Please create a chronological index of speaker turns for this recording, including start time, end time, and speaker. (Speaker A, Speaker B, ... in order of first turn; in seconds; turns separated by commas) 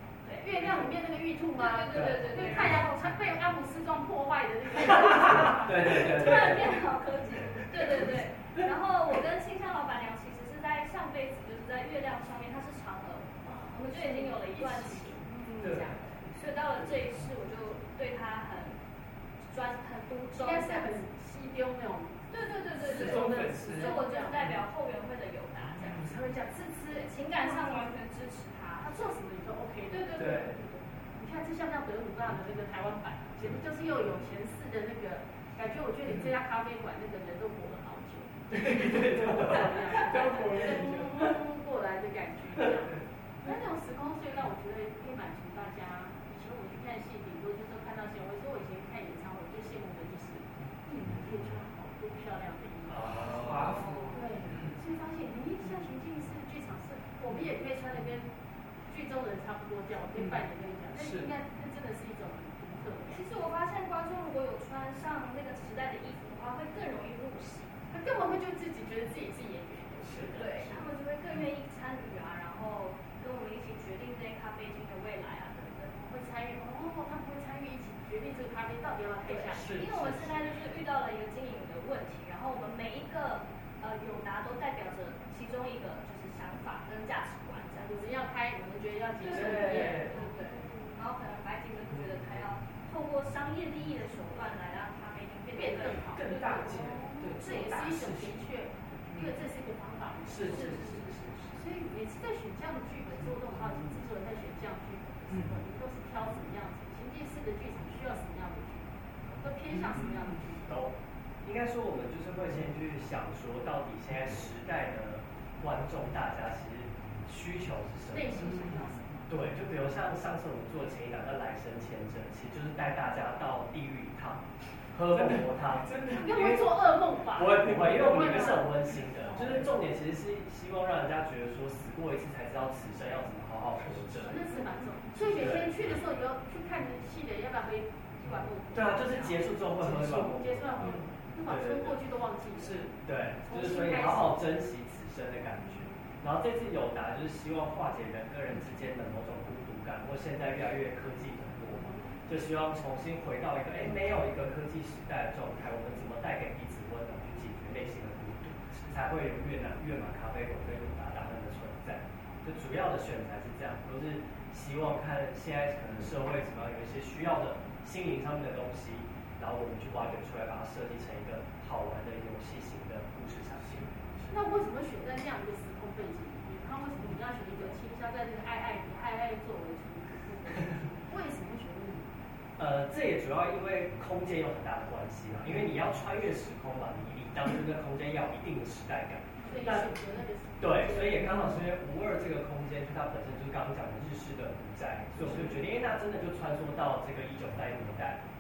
Speaker A: 0.2-0.8, Speaker B: 0.4-6.5, Speaker A: 1.6-3.0, Speaker C: 1.9-2.7, Speaker C: 5.3-6.8, Speaker A: 5.8-18.8, Speaker B: 13.4-16.2, Speaker D: 15.6-16.0, Speaker A: 19.5-21.0, Speaker B: 20.4-24.5, Speaker A: 22.3-26.2, Speaker D: 22.8-24.6, Speaker D: 25.8-26.1, Speaker B: 25.9-27.9, Speaker A: 26.7-29.0, Speaker B: 28.8-53.5, Speaker A: 29.9-30.6, Speaker D: 30.1-30.6, Speaker D: 36.1-36.3, Speaker D: 38.5-41.4, Speaker D: 42.7-43.5, Speaker C: 52.9-53.8, Speaker D: 53.1-54.8, Speaker A: 53.7-54.2, Speaker B: 54.1-58.3, Speaker B: 58.9-63.3, Speaker D: 60.2-61.3, Speaker A: 63.1-67.8, Speaker B: 67.9-70.8, Speaker D: 70.0-70.4, Speaker A: 70.3-76.0, Speaker B: 76.0-79.8, Speaker A: 79.3-88.1, Speaker D: 79.5-80.5, Speaker B: 87.8-91.0, Speaker A: 89.2-97.0, Speaker D: 89.3-90.2, Speaker B: 95.5-101.0, Speaker D: 96.2-98.5, Speaker D: 99.1-99.4, Speaker D: 100.3-101.7, Speaker A: 100.4-101.1, Speaker B: 101.5-110.9, Speaker D: 105.3-105.6, Speaker D: 109.7-110.4, Speaker C: 110.7-110.9, Speaker C: 111.4-118.6, Speaker B: 118.1-119.3, Speaker D: 118.4-118.8, Speaker C: 119.3-126.7, Speaker D: 125.1-126.7, Speaker B: 126.1-129.8, Speaker C: 127.3-134.5, Speaker D: 127.6-128.3, Speaker D: 133.9-134.8, Speaker B: 134.2-144.4, Speaker C: 135.3-135.8, Speaker C: 138.7-140.9, Speaker D: 139.8-140.3, Speaker D: 140.8-141.1, Speaker C: 141.4-142.0, Speaker D: 142.6-142.9, Speaker C: 143.0-173.9, Speaker B: 145.6-146.0, Speaker B: 151.7-152.2, Speaker D: 173.6-174.4, Speaker B: 174.3-182.1, Speaker C: 182.6-189.9, Speaker B: 189.4-191.4, Speaker C: 190.6-198.2, Speaker D: 195.2-195.5